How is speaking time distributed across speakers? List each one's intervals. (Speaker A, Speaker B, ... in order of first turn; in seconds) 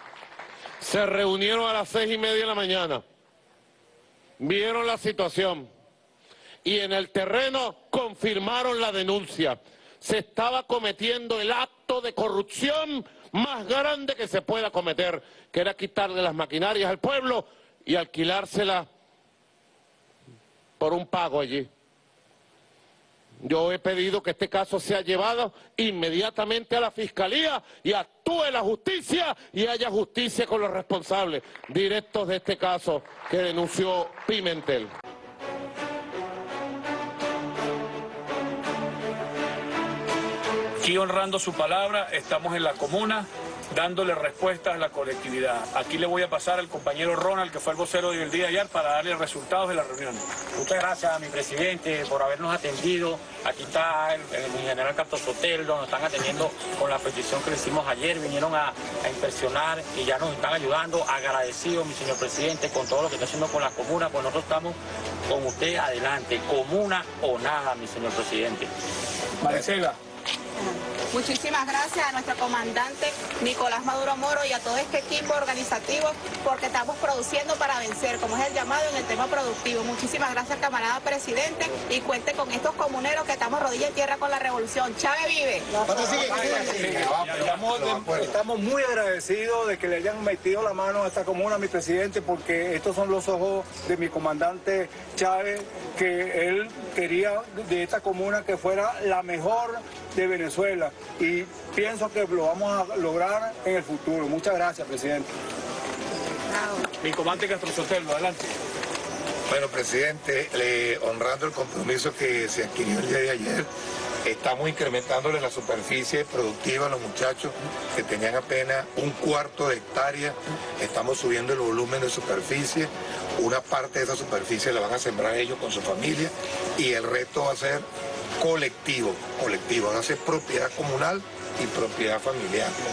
Speaker A: 0.8-3.0, 4.4-5.7, 6.6-18.9, 20.8-21.7, 23.4-34.9
Speaker B: 40.8-50.2, 69.4-70.0, 87.2-87.5, 107.0-108.5
Speaker C: 50.5-64.8, 65.3-68.7
Speaker D: 70.6-85.9, 106.5-106.9
Speaker E: 85.9-88.3, 109.5-113.7, 114.2-127.8, 128.4-132.8
Speaker F: 85.9-105.3